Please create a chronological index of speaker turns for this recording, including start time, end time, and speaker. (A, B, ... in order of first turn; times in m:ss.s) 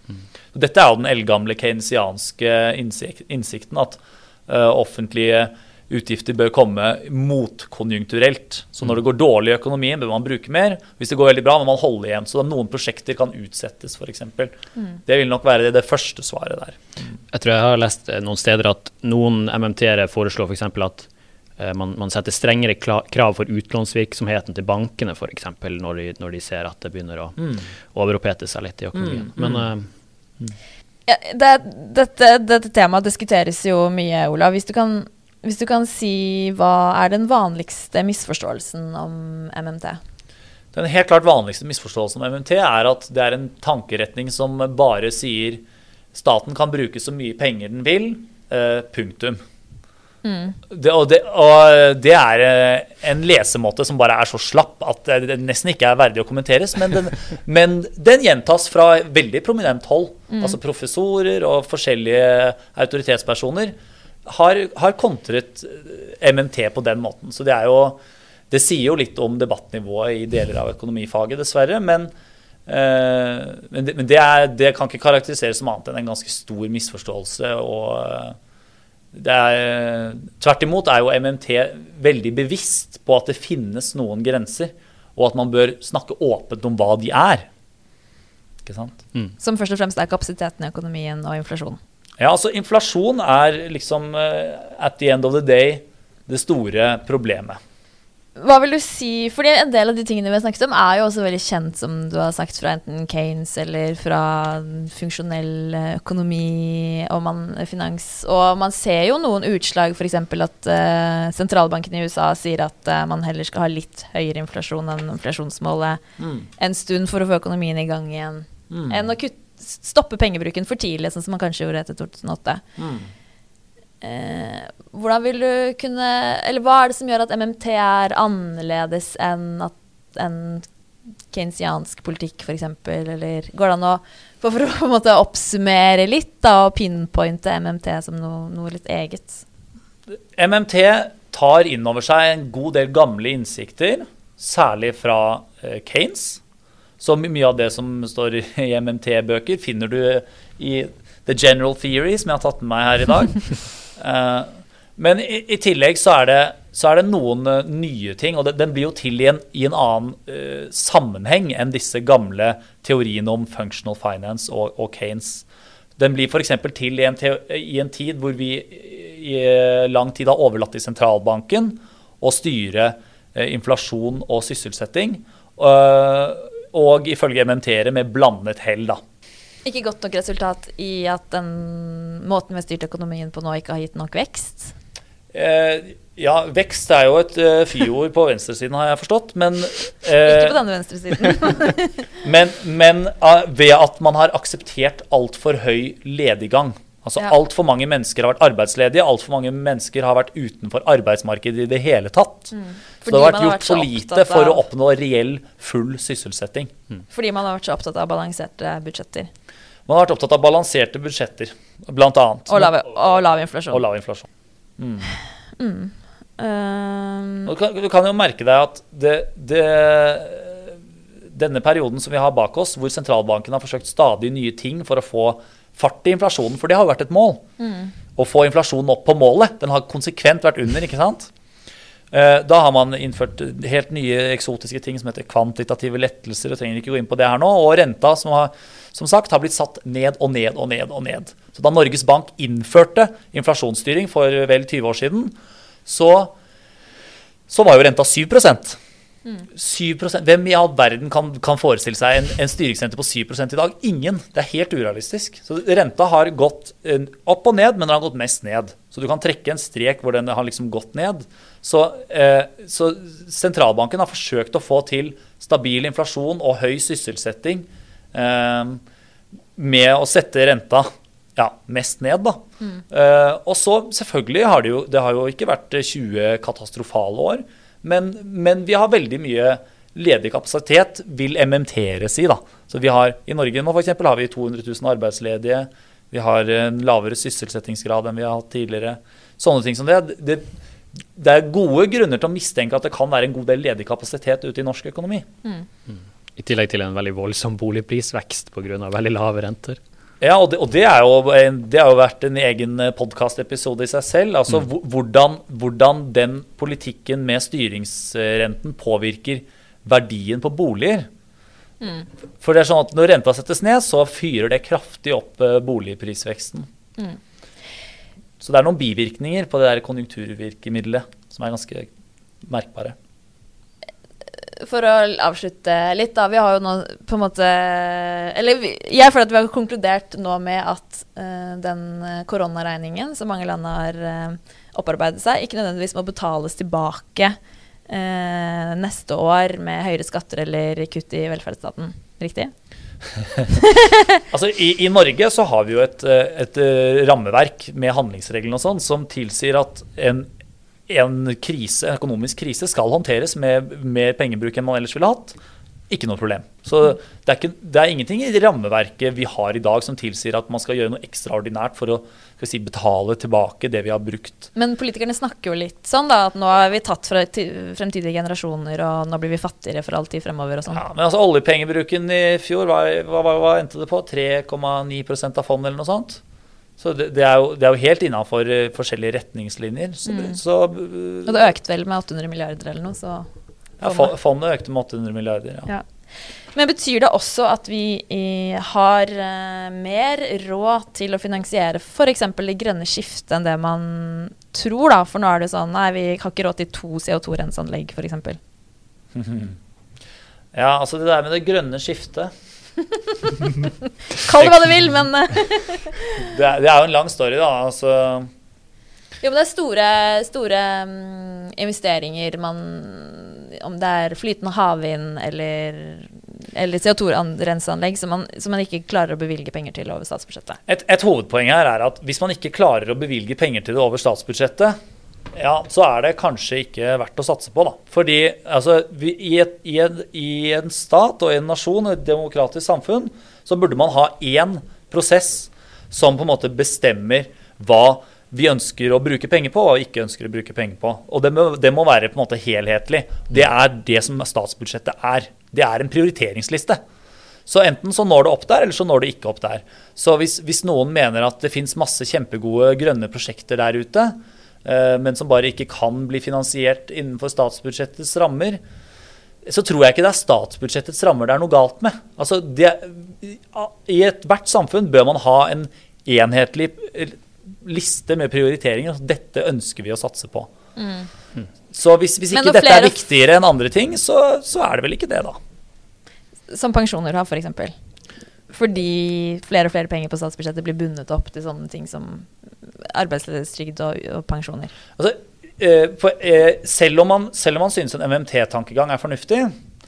0:00.5-0:14.5 A
0:15.0-0:16.8 A
0:17.3-0:29.9 B
0:29.0-0:29.6 A
0:31.1-0:40.0 C
0:40.7-0:45.6 A
0:46.1-0:49.4 A
0:50.2-0:50.6 C
0:50.7-1:08.0 A
1:00.3-1:00.6 C
1:08.5-1:12.1 A
1:12.7-1:18.4 A
1:19.1-1:27.5 A
1:28.6-1:29.0 A
1:29.4-1:31.8 C
1:32.2-1:37.6 A
1:38.4-1:56.0 C
1:56.2-1:56.5 A
1:56.6-2:02.6 C
1:58.7-1:59.1 A
2:02.8-2:03.1 A
2:04.0-2:10.7 C
2:11.3-2:19.4 C
2:20.3-2:26.4 A
2:27.0-2:45.4 A
2:46.0-2:59.0 A
2:59.6-3:04.7 C
3:05.3-3:10.6 A
3:10.1-3:12.0 C
3:12.2-3:22.5 A
3:22.5-3:24.6 C
3:23.0-3:26.7 A
3:27.1-3:29.3 C
3:29.9-3:32.8 A
3:32.5-3:33.8 C
3:33.7-3:34.2 A
3:34.8-3:35.1 A
3:35.6-3:37.5 C
3:37.4-3:40.7 A
3:41.3-3:47.4 A
3:47.6-3:47.9 C
3:48.2-3:51.3 A
3:52.1-4:05.3 A
4:05.8-4:06.3 A
4:07.5-4:08.8 A
4:09.5-4:28.8 A
4:29.6-4:50.5 A
4:51.1-4:55.2 A
4:55.9-4:59.8 B
5:00.2-5:11.1 A
5:11.8-5:12.0 C
5:12.4-5:16.7 A
5:18.4-5:21.9 A
5:22.4-5:23.0 A
5:24.6-5:37.4 C
5:37.9-5:42.5 C
5:43.6-5:44.2 C
5:44.3-5:50.3 A
5:50.9-5:55.4 A
5:55.9-6:04.5 A
6:04.6-6:10.8 C
6:10.7-6:16.2 A
6:16.8-6:21.4 A
6:20.0-6:20.4 C
6:21.2-6:23.3 C
6:23.8-6:25.7 A
6:23.8-6:24.1 C
6:26.5-6:38.4 C
6:39.1-6:39.6 A
6:40.5-6:42.3 A
6:44.1-6:46.3 C
6:46.2-6:48.3 A
6:49.2-7:00.6 C
7:00.7-7:04.8 A
7:05.3-7:26.8 A
7:27.5-7:38.6 A
7:39.4-7:50.5 A
7:50.8-7:51.1 C
7:51.7-7:55.4 A
7:52.3-7:53.0 C
7:56.5-7:57.7 C
7:58.5-8:04.7 C
8:05.0-8:09.5 A